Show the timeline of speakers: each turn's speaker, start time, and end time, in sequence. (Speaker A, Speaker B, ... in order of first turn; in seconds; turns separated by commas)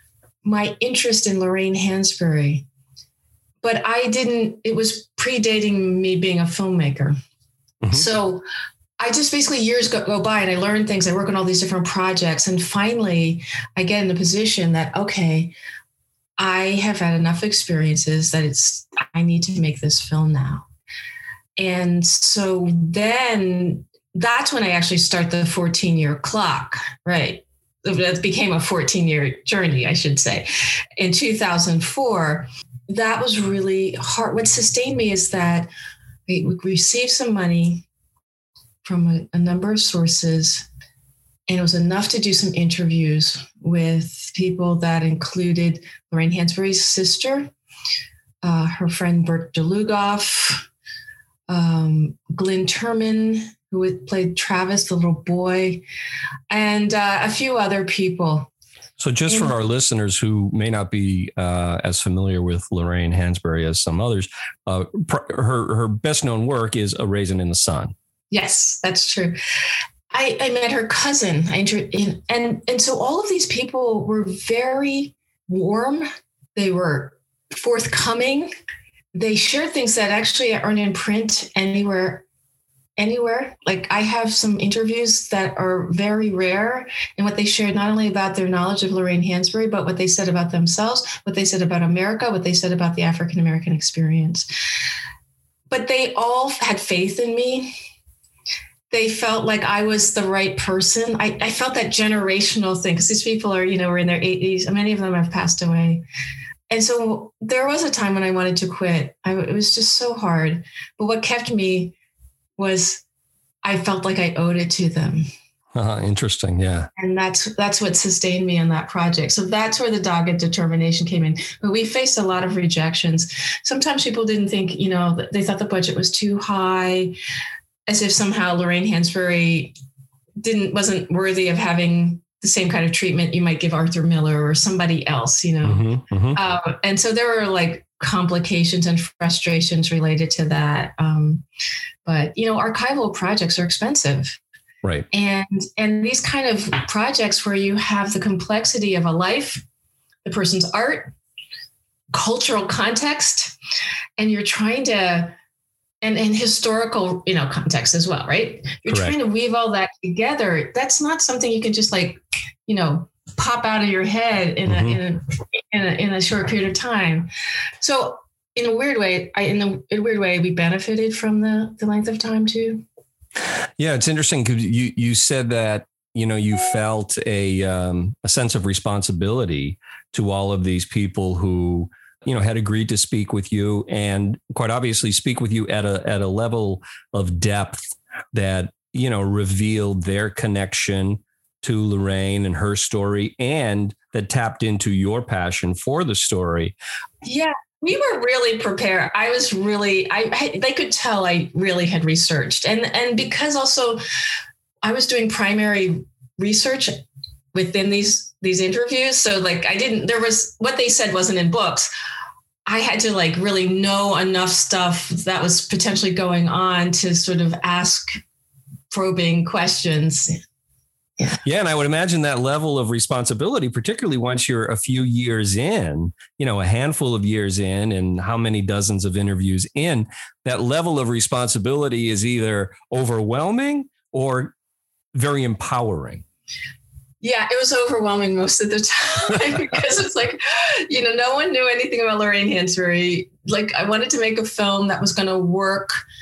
Speaker A: 0.4-2.6, Speaker A: 3.6-7.2, Speaker A: 7.9-8.4, Speaker A: 9.0-15.5, Speaker A: 16.4-20.7, Speaker A: 21.6-30.5, Speaker A: 31.0-35.7, Speaker A: 36.3-37.9, Speaker A: 38.8-40.7, Speaker A: 41.5-47.5, Speaker A: 48.4-50.6, Speaker A: 51.5-55.8, Speaker A: 56.5-58.5, Speaker B: 59.0-67.9, Speaker A: 59.3-59.5, Speaker A: 68.3-69.3, Speaker A: 70.1-78.5, Speaker A: 79.1-82.2, Speaker A: 83.0-94.5, Speaker A: 95.7-97.7, Speaker A: 98.9-106.0, Speaker A: 106.7-111.9, Speaker A: 112.6-113.0, Speaker A: 113.6-115.2, Speaker B: 115.7-116.9, Speaker A: 117.0-127.2, Speaker A: 127.9-129.7, Speaker A: 130.4-141.4, Speaker B: 135.6-136.4, Speaker A: 142.0-144.4, Speaker A: 145.1-149.6, Speaker A: 150.2-151.1, Speaker A: 152.1-153.5, Speaker A: 154.2-155.3, Speaker A: 156.0-167.3, Speaker B: 158.9-159.1, Speaker B: 164.7-165.0, Speaker A: 167.8-172.8, Speaker B: 173.8-196.7, Speaker A: 197.2-204.0, Speaker A: 204.8-206.9, Speaker A: 207.5-211.9, Speaker A: 212.7-218.1, Speaker A: 218.9-220.4, Speaker B: 221.4-234.5, Speaker B: 235.1-236.2, Speaker A: 237.2-246.0